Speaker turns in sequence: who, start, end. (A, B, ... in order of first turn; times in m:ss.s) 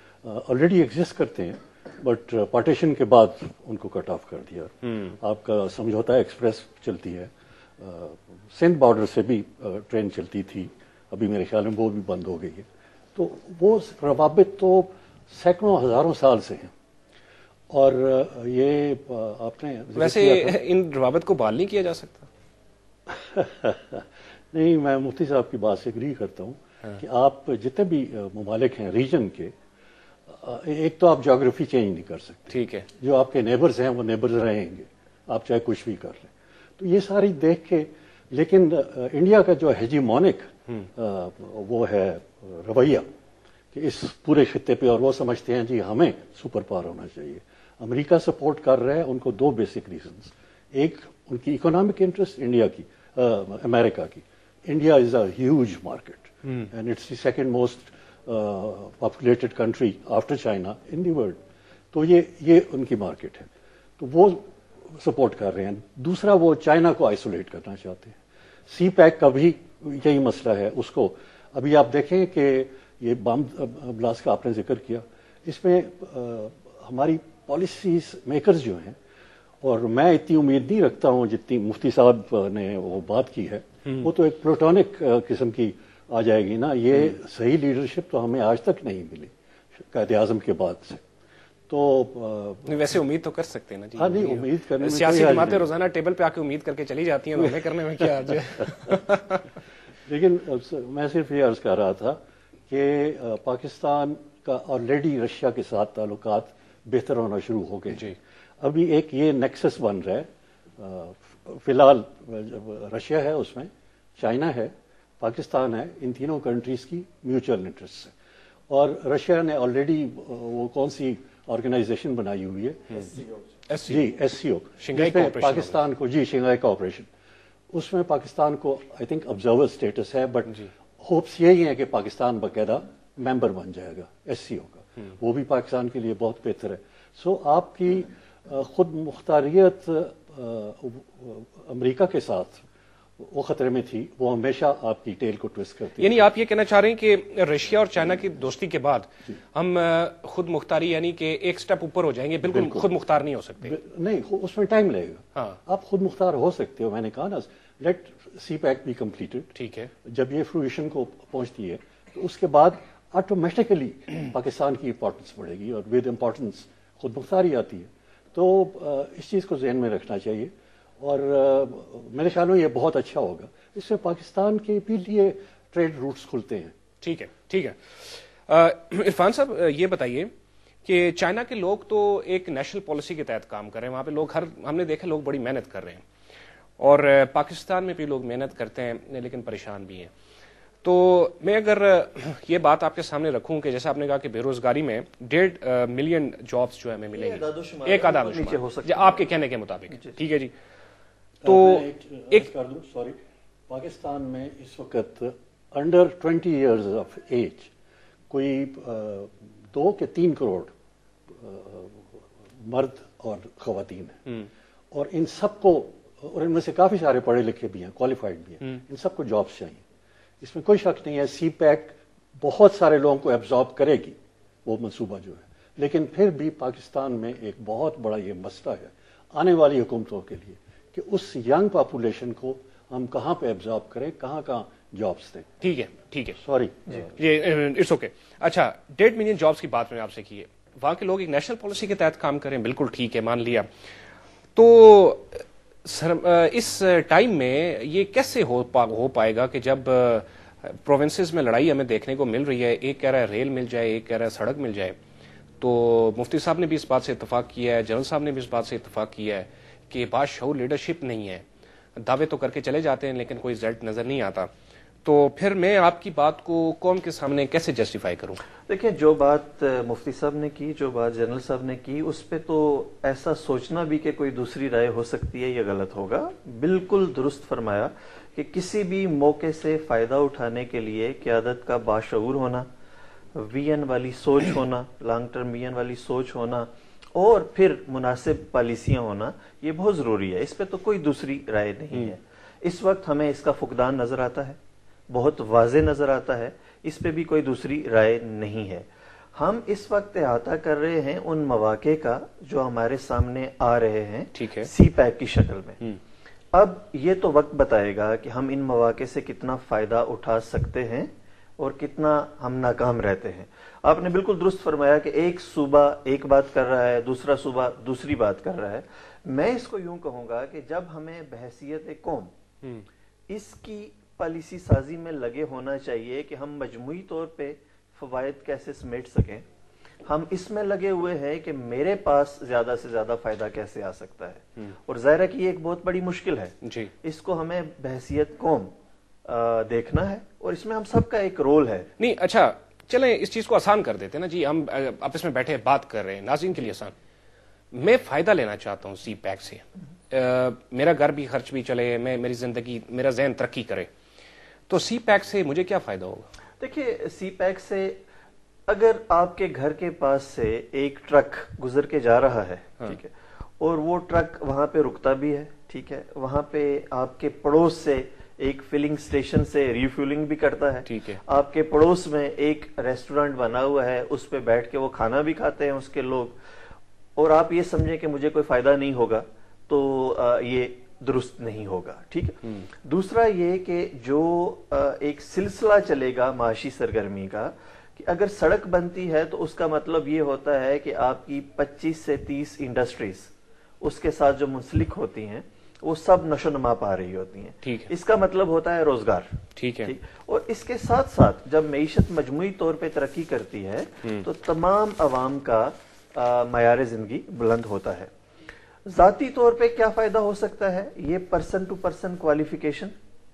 0:00.2-0:16.7 A
0:17.7-0:20.6 A
0:20.0-0:22.3 B
0:23.1-0:29.5 A
0:30.3-0:43.0 A
0:32.5-0:32.9 B
0:43.7-1:01.4 A
1:01.9-1:03.5 A
1:04.0-1:19.0 A
1:19.6-1:31.0 A
1:31.7-1:32.7 A
1:32.6-1:39.5 B
1:34.0-1:35.7 A
1:37.4-1:38.3 A
1:40.0-1:50.3 A
1:50.8-1:58.1 A
1:58.7-2:03.1 A
2:03.7-2:04.0 B
2:03.8-2:07.1 A
2:04.8-2:05.8 B
2:07.7-2:22.6 A
2:23.2-2:26.3 A
2:26.0-2:33.8 B
2:32.5-2:32.9 A
2:33.6-2:39.5 A
2:39.5-2:39.9 B
2:40.0-2:56.7 A
2:57.0-3:00.3 B
3:00.8-3:06.0 B
3:06.8-3:10.1 B
3:10.8-3:20.5 B
3:17.1-3:19.3 C
3:21.4-3:23.2 A
3:21.4-3:22.5 B
3:23.7-3:27.7 A
3:28.3-3:30.7 A
3:31.3-3:34.2 A
3:34.9-3:39.8 A
3:40.4-3:55.5 A
3:55.6-3:56.4 B
3:56.4-3:57.1 A
3:57.2-4:03.7 B
4:04.5-4:15.0 B
4:15.6-4:21.4 B
4:22.0-4:24.5 B
4:25.0-4:28.4 B
4:28.6-4:42.7 C
4:43.3-4:54.6 C
4:55.1-5:05.8 C
5:04.3-5:04.7 B
5:06.5-5:22.3 C
5:23.3-5:29.4 C
5:30.0-5:38.7 C
5:36.6-5:36.9 B
5:39.2-5:41.9 C
5:42.0-5:46.9 B
5:47.7-5:53.9 B
5:54.7-5:56.3 B
5:56.6-5:58.0 C
5:58.7-6:16.4 C
6:10.8-6:11.2 B
6:17.2-6:48.1 C
6:37.6-6:37.9 B
6:39.6-6:39.9 B
6:48.8-6:52.9 C